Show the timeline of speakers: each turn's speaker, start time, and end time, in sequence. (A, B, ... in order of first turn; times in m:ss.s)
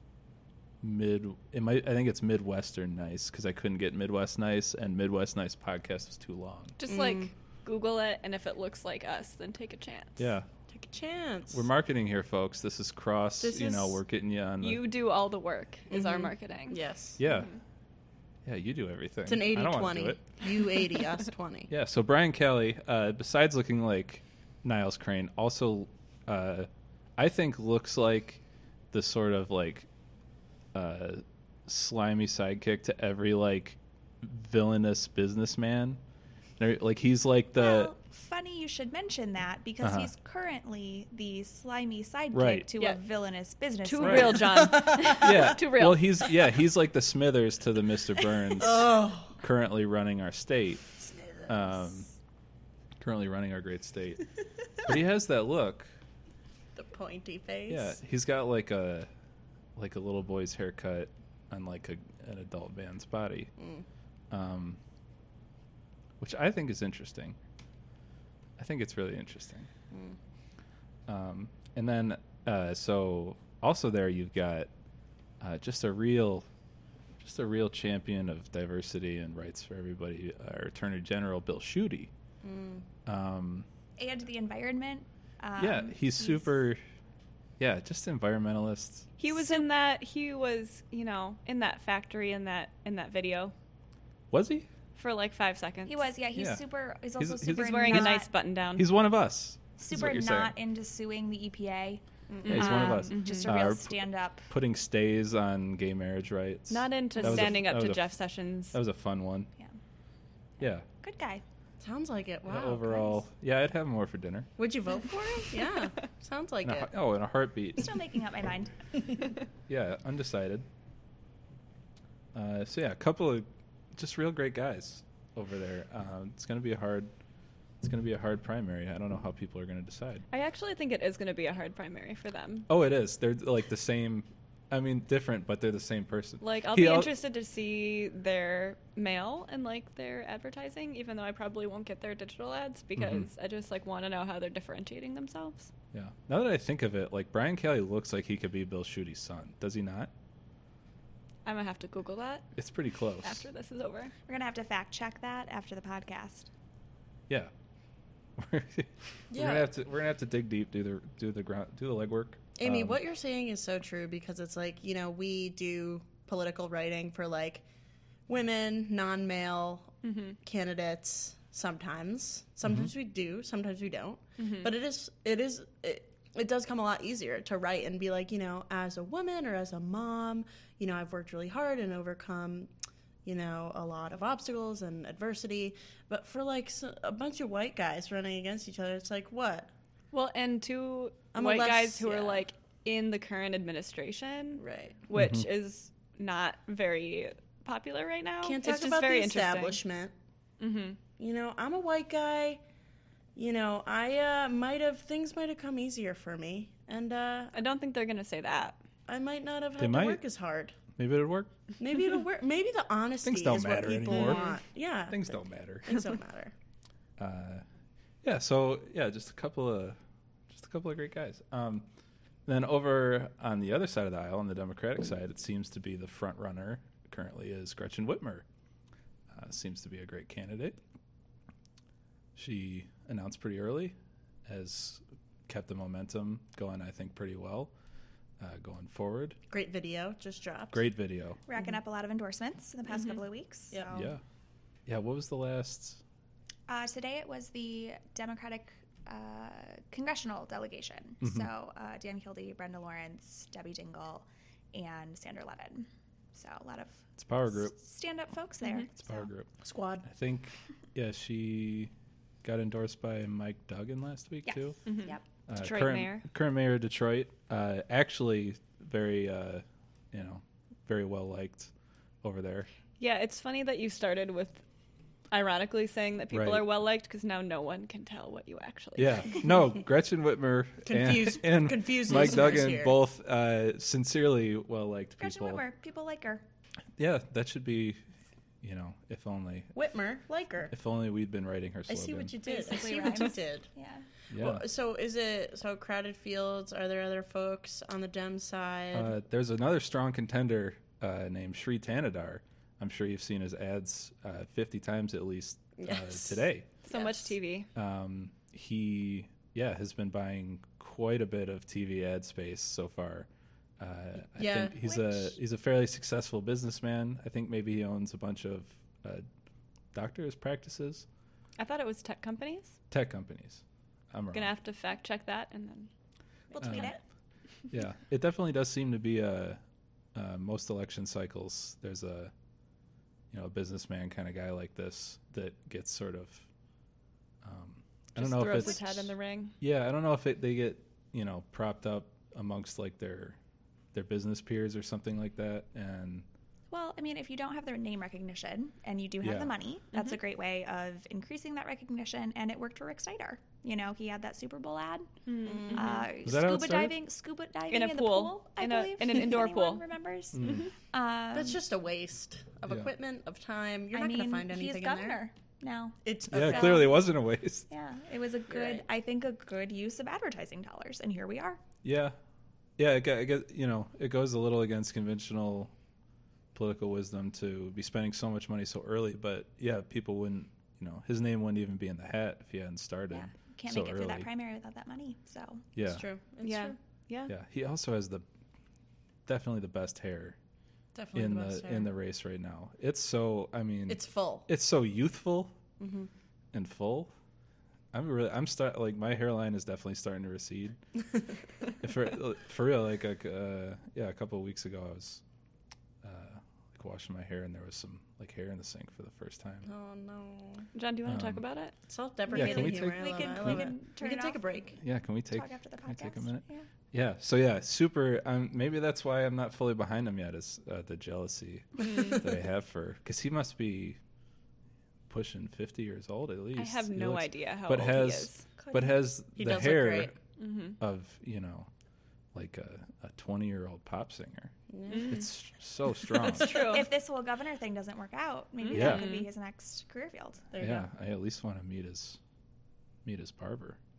0:00.8-0:06.8 A
0:06.8-0:10.3 B
0:06.9-0:07.3 C
0:10.2-0:10.5 A
0:10.7-0:11.7 C
0:11.5-0:14.8 A
0:13.4-0:14.0 C
0:14.6-0:17.6 B
0:15.9-0:17.2 C
0:17.2-0:17.6 A
0:18.4-0:20.2 A
0:19.3-0:21.7 C
0:21.7-0:29.9 A
0:30.7-0:36.0 A
0:36.6-0:37.9 A
0:37.6-0:44.7 D
0:39.8-0:40.1 A
0:42.3-0:42.7 A
0:43.8-0:46.5 B
0:44.0-0:44.3 A
0:44.4-0:45.4 C
0:45.2-0:52.1 A
0:48.6-0:49.4 C
0:53.0-0:54.2 A
0:54.8-0:55.9 A
0:56.8-0:58.0 C
0:57.7-0:59.1 A
0:59.8-1:03.5 A
1:03.6-1:03.8 C
1:04.3-1:04.8 A
1:06.2-1:07.4 A
1:08.6-1:09.7 A
1:09.9-1:10.2 C
1:11.1-1:14.7 A
1:15.4-1:16.5 A
1:17.2-1:22.1 A
1:22.4-1:22.9 C
1:23.1-1:23.7 A
1:24.0-1:26.5 D
1:25.6-1:26.8 A
1:27.6-1:29.1 A
1:29.2-1:33.5 B
1:34.3-1:34.7 A
1:35.0-1:36.1 B
1:35.9-1:38.3 D
1:36.4-1:36.6 A
1:37.2-1:38.2 A
1:37.5-1:38.9 B
1:38.8-1:40.5 A
1:39.8-1:44.5 D
1:42.3-1:42.8 C
1:42.5-1:43.5 B
1:42.5-1:48.1 A
1:46.7-1:48.8 B
1:48.7-1:49.5 A
1:50.6-1:50.8 A
1:50.8-1:51.4 D
1:51.8-1:53.2 C
1:52.5-1:54.5 A
1:54.6-1:56.9 C
1:56.6-1:57.9 A
1:57.8-1:59.2 D
1:59.7-2:00.7 A
2:02.3-2:07.1 A
2:07.8-2:10.3 A
2:10.3-2:12.7 B
2:12.7-2:17.1 A
2:16.4-2:25.7 B
2:23.0-2:23.3 A
2:25.9-2:30.1 A
2:31.4-2:32.6 B
2:32.6-2:33.5 A
2:33.2-2:34.1 B
2:34.3-2:36.5 D
2:38.4-2:43.0 A
2:39.3-2:39.7 C
2:42.6-2:47.6 C
2:48.3-3:02.7 C
2:50.0-2:50.4 B
2:54.4-2:54.7 B
3:03.2-3:09.7 C
3:10.1-3:19.8 B
3:11.3-3:12.4 C
3:14.6-3:15.0 C
3:15.2-3:15.5 A
3:18.4-3:20.1 C
3:20.6-3:21.0 B
3:21.2-3:22.6 C
3:23.4-3:27.5 C
3:27.5-3:28.8 B
3:29.1-3:30.8 C
3:29.8-3:30.2 A
3:31.0-3:31.5 A
3:31.8-3:36.5 C
3:33.2-3:36.1 A
3:34.1-3:34.5 B
3:37.2-3:37.6 A
3:38.2-3:40.0 A
3:40.5-3:41.9 A
3:42.5-3:48.4 A
3:49.3-3:50.8 A
3:52.4-3:57.7 A
3:58.4-3:59.4 A
3:59.5-4:00.8 C
4:00.7-4:01.4 A
4:01.5-4:03.8 D
4:03.7-4:04.2 C
4:03.9-4:04.2 A
4:04.9-4:06.0 A
4:06.7-4:19.3 D
4:11.2-4:11.5 A
4:17.2-4:17.8 A
4:19.0-4:19.5 A
4:19.6-4:20.1 C
4:20.0-4:21.9 A
4:22.4-4:32.7 A
4:24.4-4:25.2 D
4:24.9-4:26.3 B
4:33.0-4:34.6 B
4:35.3-4:39.5 B
4:36.3-4:36.6 A
4:39.0-4:45.6 A
4:40.9-4:43.0 C
4:45.2-4:46.4 D
4:47.0-4:48.0 A
4:48.6-4:49.7 A
4:49.7-4:50.7 C
4:50.7-4:52.3 A
4:51.9-4:53.7 C
4:52.4-4:54.1 D
4:54.3-4:54.6 A
4:54.3-4:59.1 C
4:58.9-5:06.7 A
5:05.8-5:07.4 C
5:06.8-5:07.7 B
5:07.8-5:13.3 A
5:13.8-5:19.2 A
5:14.4-5:14.7 C
5:14.8-5:15.4 D
5:19.9-5:21.1 A
5:21.6-5:22.8 B
5:22.9-5:24.5 A
5:24.3-5:25.9 B
5:26.5-5:27.0 D
5:26.6-5:27.0 A
5:26.6-5:27.0 B
5:27.7-5:29.6 A
5:30.1-5:32.3 A
5:33.3-5:36.5 A
5:37.4-5:43.4 A
5:38.2-5:39.6 B
5:43.9-5:46.2 A
5:46.7-5:55.1 D
5:49.2-5:49.5 A
5:49.9-5:50.2 B
5:55.3-5:56.1 B
5:55.4-5:56.0 C
5:55.7-6:01.6 D
5:56.2-5:56.9 A
5:57.7-5:59.8 B
6:00.3-6:00.7 A
6:00.4-6:00.7 B
6:01.3-6:05.2 C
6:03.9-6:07.1 D
6:06.0-6:06.9 C
6:06.3-6:07.6 A
6:07.7-6:11.6 D
6:08.5-6:08.8 C
6:11.8-6:12.2 A
6:12.8-6:15.7 A
6:16.5-6:24.3 A
6:23.1-6:25.6 D
6:25.8-6:26.0 A
6:25.9-6:26.8 C
6:26.4-6:27.3 B
6:27.3-6:28.2 A
6:29.3-6:30.4 A
6:30.9-6:31.9 C
6:31.1-6:35.6 A
6:33.9-6:34.5 C
6:35.8-6:36.1 C
6:36.5-6:37.1 A
6:37.9-6:40.8 A
6:41.8-6:45.2 A
6:46.0-6:49.7 A
6:49.6-6:50.7 C
6:50.8-6:51.7 B
6:51.1-6:51.4 A
6:51.9-6:54.8 C
6:52.3-6:54.4 D
6:52.3-6:53.7 A
6:54.8-7:04.0 A
6:55.3-6:56.7 D
7:05.1-7:10.2 A
7:06.6-7:08.9 B
7:09.4-7:10.1 C
7:10.4-7:10.8 B
7:10.8-7:11.7 A
7:12.3-7:14.5 A
7:14.7-7:15.2 C
7:14.9-7:15.2 B
7:15.1-7:16.5 A
7:16.3-7:16.6 C
7:16.4-7:16.9 B
7:16.5-7:20.4 D
7:18.6-7:19.3 B
7:18.7-7:19.0 A
7:20.5-7:20.9 C
7:20.6-7:22.2 A
7:23.0-7:23.8 A